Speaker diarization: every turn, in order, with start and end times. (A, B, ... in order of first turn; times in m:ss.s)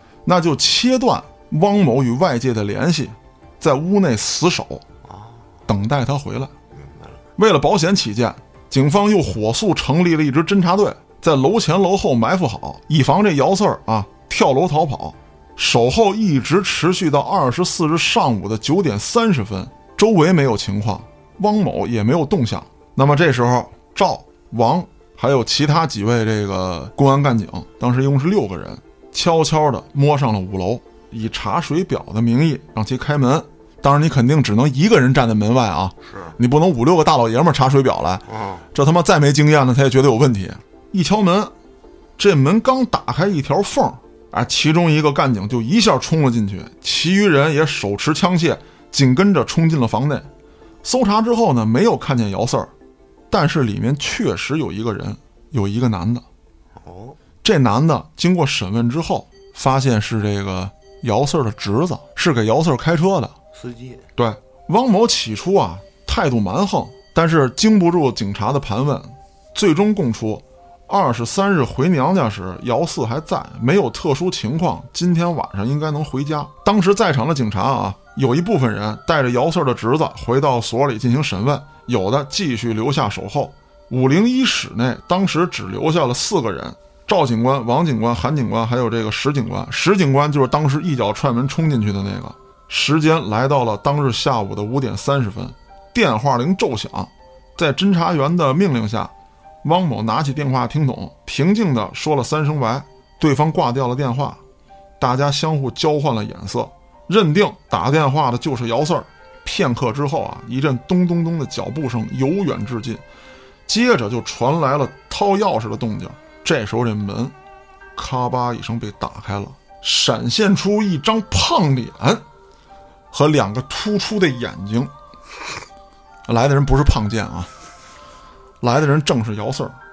0:00.2-0:04.8 A
0:05.0-0:05.5 B
0:05.7-0:06.5 A
0:06.7-0:07.2 B
0:07.4-0:41.5 A
0:36.0-0:36.4 B
0:38.3-0:38.6 B
0:42.2-0:50.3 A
0:50.8-0:52.7 A
0:53.3-0:56.2 A
0:56.8-0:57.2 B
0:57.4-1:03.3 A
1:03.5-1:04.0 B
1:04.2-1:39.1 A
1:39.6-1:44.4 A
1:45.0-1:53.0 A
1:53.7-1:57.3 A
1:57.9-2:02.2 A
2:03.1-2:04.9 A
2:06.3-2:07.5 A
2:08.6-2:09.8 A